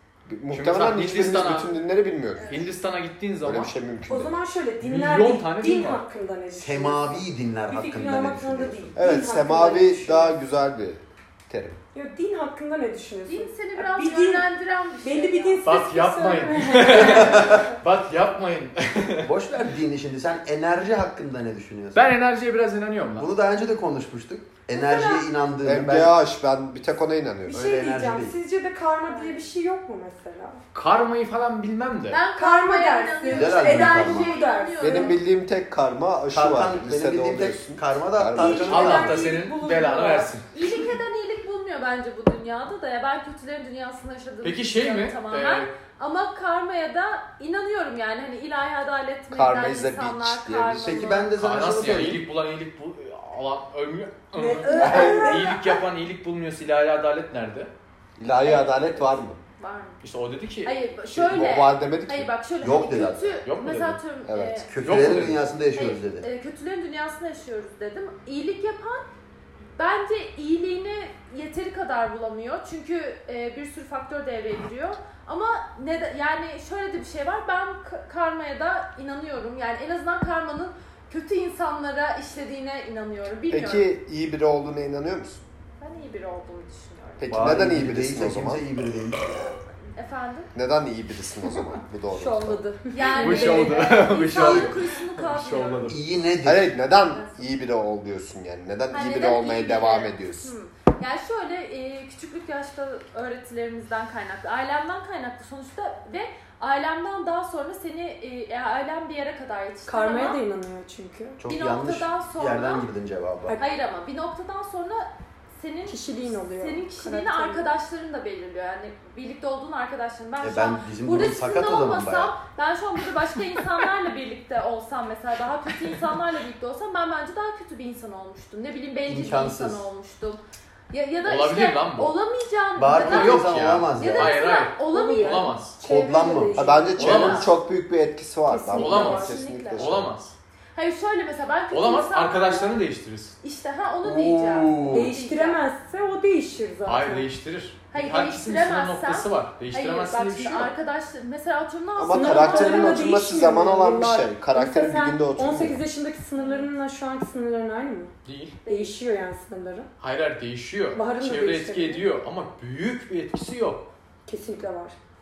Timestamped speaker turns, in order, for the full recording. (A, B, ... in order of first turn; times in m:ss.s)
0:00.3-0:02.6 A
0:00.5-0:01.7 B
0:02.4-0:02.7 C
0:02.5-0:03.8 B
0:03.4-0:04.4 A
0:04.1-0:10.4 D
0:04.8-0:06.0 B
0:06.5-0:09.0 E
0:09.0-0:11.8 A
0:11.9-0:14.4 D
0:13.3-0:15.6 C
0:15.0-0:17.7 D
0:15.6-0:19.3 B
0:17.1-0:17.6 E
0:19.2-0:22.1 E
0:21.9-0:23.3 B
0:23.2-0:26.2 E
0:24.7-0:25.3 C
0:25.6-0:27.7 A
0:27.5-0:30.6 D
0:27.5-0:28.4 E
0:29.0-0:29.5 C
0:30.7-0:32.2 B
0:32.1-0:35.2 C
0:32.4-0:35.2 D
0:33.3-0:34.4 E
0:34.8-0:38.8 A
0:36.3-0:39.3 E
0:38.4-0:40.6 D
0:38.7-0:40.5 B
0:40.5-0:51.4 C
0:44.4-0:45.7 B
0:49.3-0:51.1 A
0:50.8-0:52.2 E
0:51.4-0:57.7 B
0:54.4-0:55.8 D
0:54.7-0:55.3 C
0:54.8-0:55.4 A
0:58.2-0:59.4 A
0:58.3-1:00.0 C
1:00.0-1:00.8 B
1:00.6-1:04.7 C
1:01.1-1:02.3 A
1:02.6-1:03.4 E
1:03.4-1:04.0 B
1:04.3-1:04.6 A
1:04.7-1:06.3 E
1:04.8-1:05.4 B
1:05.8-1:09.1 C
1:09.8-1:23.9 C
1:23.5-1:25.4 A
1:25.8-1:27.4 C
1:27.2-1:28.7 A
1:27.3-1:29.5 E
1:30.0-1:30.5 C
1:30.6-1:32.6 A
1:32.1-1:34.7 D
1:32.9-1:35.9 C
1:33.1-1:36.0 B
1:35.9-1:36.7 E
1:36.4-1:40.5 A
1:37.1-1:37.4 C
1:38.9-1:50.4 C
1:49.9-1:51.4 D
1:51.4-1:53.6 E
1:51.5-1:52.9 C
1:53.6-2:15.6 C
1:55.9-1:57.7 D
2:00.4-2:02.4 E
2:09.1-2:09.8 E
2:11.2-2:12.1 B
2:12.8-2:14.4 E
2:13.0-2:15.8 B
2:14.9-2:17.2 D
2:15.8-2:16.8 E
2:16.5-2:20.1 A
2:17.0-2:17.5 B
2:18.5-2:19.8 D
2:18.8-2:20.4 B
2:19.3-2:19.8 C
2:20.8-2:22.8 C
2:21.7-2:23.4 B
2:23.4-2:25.6 C
2:24.0-2:25.1 E
2:24.9-2:27.3 D
2:26.9-2:30.7 B
2:27.9-2:33.1 C
2:32.0-2:35.8 A
2:32.1-2:38.1 D
2:36.4-2:36.7 C
2:38.2-2:38.6 B
2:38.6-2:39.0 C
2:38.7-2:39.9 D
2:40.0-2:43.9 B
2:41.0-2:42.0 D
2:44.3-2:45.0 D